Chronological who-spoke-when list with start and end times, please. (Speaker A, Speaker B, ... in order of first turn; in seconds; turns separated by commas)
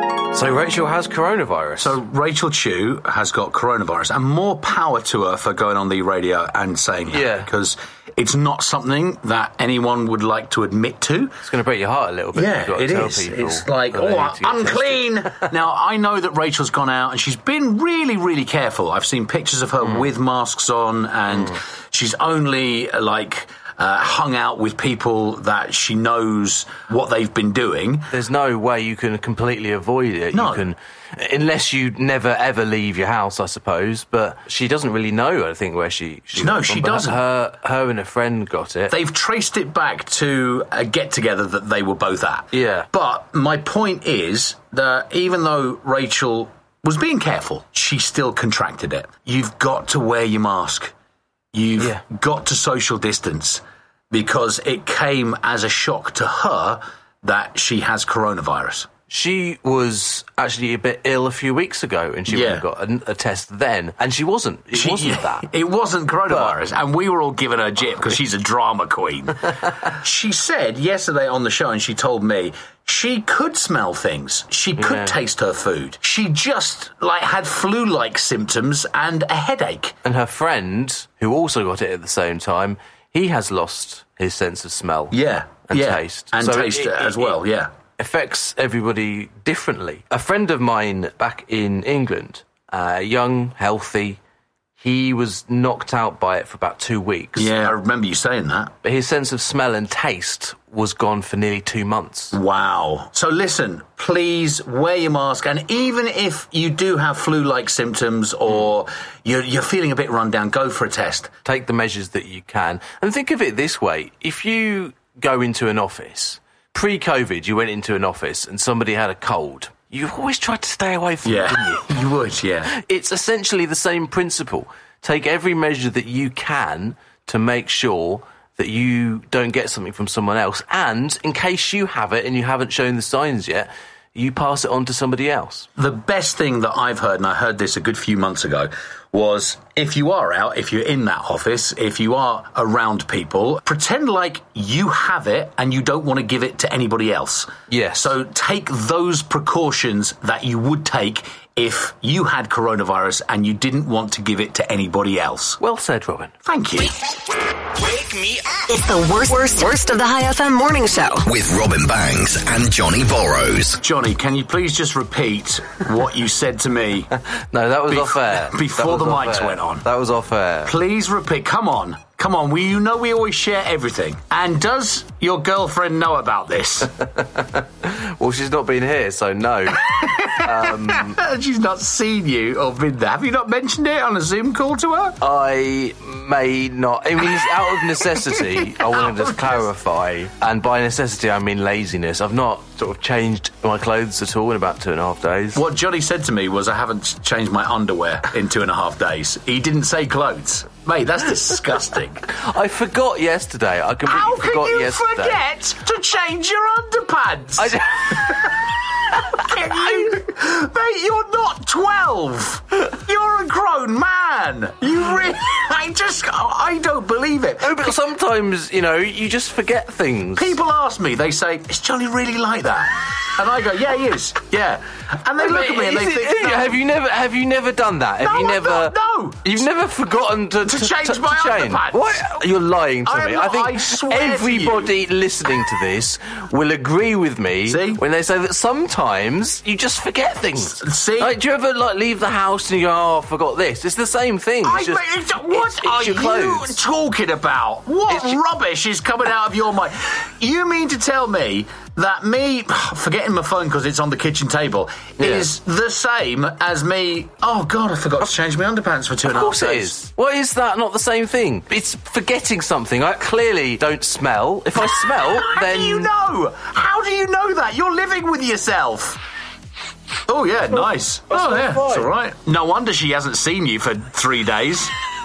Speaker A: 0.3-1.9, Speaker B: 1.8-11.4, Speaker A: 7.1-7.5, Speaker A: 11.4-15.4, Speaker B: 12.3-28.1, Speaker A: 28.1-38.9, Speaker B: 30.3-30.7, Speaker B: 36.3-37.2, Speaker B: 38.9-50.9, Speaker A: 42.5-42.9, Speaker B: 51.5-58.9, Speaker A: 59.1-65.5, Speaker B: 62.3-62.6, Speaker B: 64.7-80.0, Speaker A: 66.3-66.5, Speaker A: 74.8-75.1, Speaker A: 80.0-85.1, Speaker B: 85.1-87.7, Speaker A: 85.7-87.3, Speaker A: 88.0-94.2, Speaker A: 94.8-97.7, Speaker B: 97.3-98.7, Speaker A: 98.8-102.3, Speaker B: 102.3-111.3, Speaker A: 111.4-121.9, Speaker B: 121.2-122.7, Speaker A: 122.7-135.7, Speaker B: 135.8-155.6, Speaker A: 147.7-148.1, Speaker A: 155.6-156.3, Speaker B: 156.4-156.9, Speaker C: 158.6-161.2, Speaker D: 161.3-163.8, Speaker B: 163.8-167.1, Speaker A: 167.5-170.7, Speaker B: 167.9-169.8, Speaker B: 170.6-176.9, Speaker A: 177.3-181.2, Speaker B: 179.8-185.2, Speaker A: 185.2-195.6, Speaker B: 188.8-189.6, Speaker B: 195.5-202.3, Speaker A: 202.4-205.4, Speaker B: 204.1-208.5, Speaker A: 207.6-208.6, Speaker B: 209.2-218.0, Speaker A: 217.6-220.5, Speaker B: 220.3-226.8, Speaker A: 225.4-246.8, Speaker B: 228.2-229.7, Speaker B: 230.6-232.4, Speaker B: 233.0-234.9, Speaker B: 237.7-238.0, Speaker B: 240.8-241.4, Speaker B: 244.6-260.0, Speaker A: 255.2-255.5, Speaker A: 259.3-266.1, Speaker B: 265.4-269.2, Speaker B: 270.3-274.9, Speaker A: 271.3-272.1